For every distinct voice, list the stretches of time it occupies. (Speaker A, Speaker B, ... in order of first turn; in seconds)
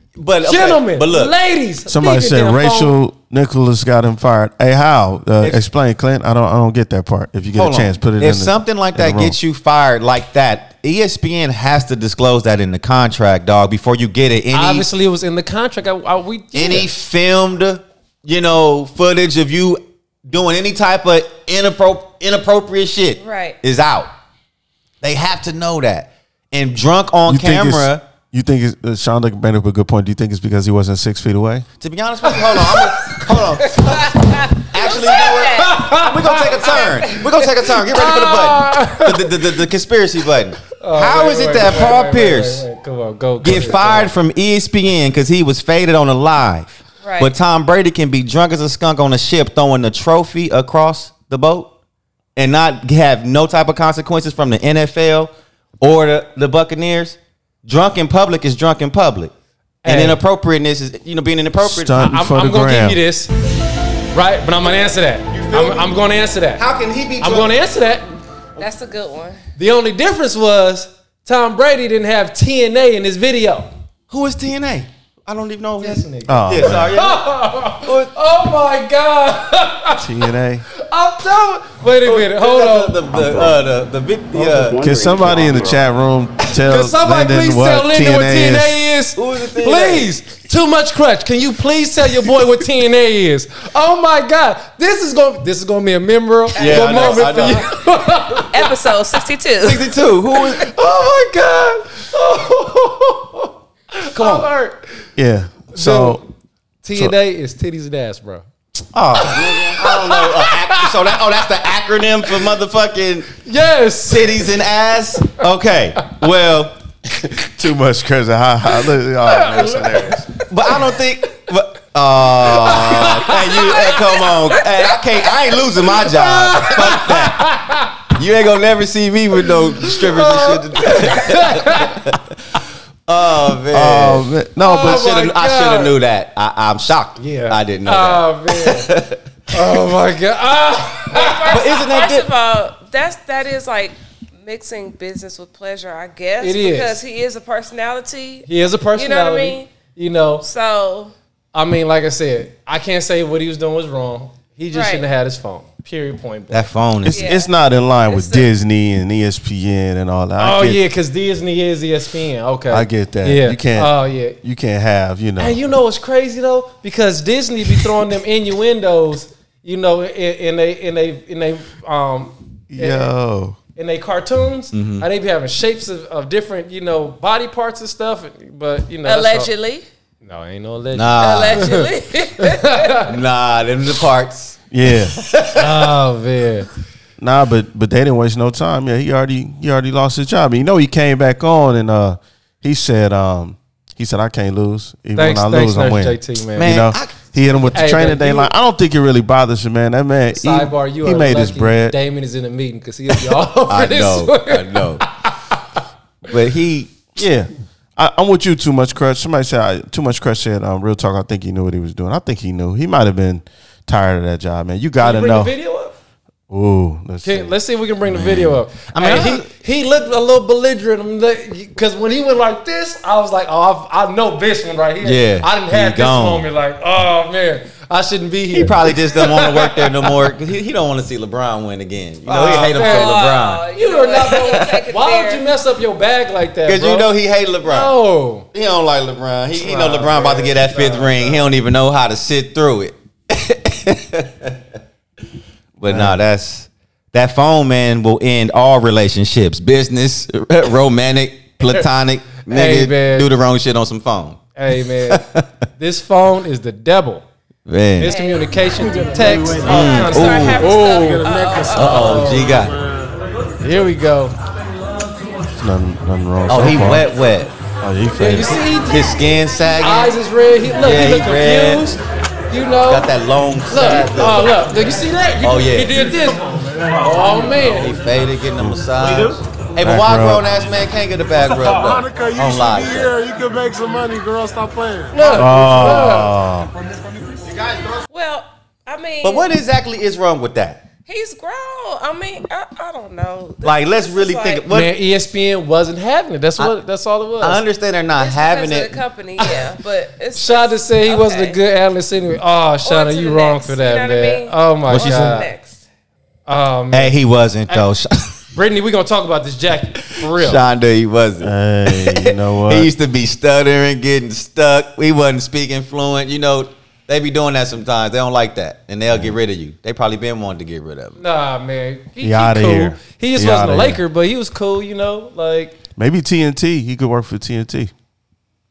Speaker A: 0.2-1.3, 7.5-14.9, 16.5-24.1, 25.0-28.0, 31.8-42.6, 43.4-51.7, 52.4-59.3, 59.9-62.0, 65.3-65.9, 66.6-67.5, 74.1-78.1, 82.0-85.8, 89.2-90.1, 96.5-97.7, 99.6-100.7, 104.1-104.5, 108.9-113.3, 114.1-116.7, 120.5-127.5, 128.1-134.2, 134.8-139.2, 141.5-142.3, 156.5-157.3, 174.7-175.1, 180.9-181.7, 183.1-185.9, 196.6-197.7, 203.7-205.1, 206.3-207.0, 218.1-219.5, 225.0-226.5, 228.5-234.8, 236.7-238.0, 238.5-244.6, 245.8-255.5, 257.6-258.1, 259.6-260.7, 261.7-262.8, 266.5-267.5, 268.9-270.1, 270.8-271.9, 272.9-274.6, 275.4-276.1, 277.5-283.1, 289.2-290.8, 293.6-294.9, 297.4-299.0, 304.9-305.5, 306.9-308.4, 310.2-321.2
Speaker B: 0.4-2.9, 14.5-16.9, 32.3-33.8, 35.5-37.2, 37.8-39.4, 40.8-44.1, 59.8-60.2, 61.9-63.3, 64.1-66.6, 67.2-68.2, 69.6-73.7, 75.8-83.5, 84.3-84.7, 86.6-98.8, 100.4-105.1, 105.7-106.2, 106.8-108.5, 109.2-111.2, 113.4-114.5, 119.2-121.0, 122.4-124.1, 125.9-128.1, 129.5-132.0, 134.6-135.9, 137.2-138.9, 139.5-141.6, 146.4-147.0, 148.5-150.4, 151.5-156.7, 160.4-164.4, 165.4-173.1, 173.8-179.5, 180.2-181.9, 182.4-183.1, 185.5-186.7, 195.2-196.8, 197.7-198.5, 200.3-205.8, 215.0-215.9, 217.2-230.1, 232.2-237.1, 237.6-238.5, 239.6-241.5, 251.6-251.9, 252.4-253.3, 254.6-255.2, 255.8-257.2, 258.0-262.7, 263.6-264.3, 268.2-269.3, 269.8-273.1, 273.7-278.0, 285.1-286.3, 294.7-297.6, 299.4-299.6, 300.3-305.5, 306.5-307.1, 308.5-310.6, 321.2-325.8
Speaker C: 1.9-9.4, 27.3-31.6, 61.6-63.0, 76.3-76.9, 80.0-80.6, 84.8-88.8, 105.2-106.2, 117.1-120.3, 133.7-135.1, 157.0-160.8, 162.7-165.6, 172.7-173.6, 184.7-185.2, 187.2-201.9, 207.2-215.5, 216.5-217.5, 245.9-246.2, 265.6-267.1, 267.8-268.6, 279.8-280.5, 285.3-286.7, 311.4-312.9, 319.1-319.4, 322.2-324.0, 326.0-327.9
Speaker D: 23.2-23.6, 33.8-35.8, 36.6-37.2, 47.0-47.3, 68.6-69.4, 96.5-97.7, 98.5-99.9, 131.0-131.4, 141.1-149.7, 150.4-151.1, 154.7-155.1, 157.1-157.5, 158.1-158.5, 179.0-179.8, 181.2-183.0, 232.3-235.4, 258.0-258.6, 259.6-262.3, 287.6-289.5, 291.0-294.6, 298.1-301.6, 302.8-305.8
Speaker E: 259.1-260.0, 260.8-262.9, 281.8-285.8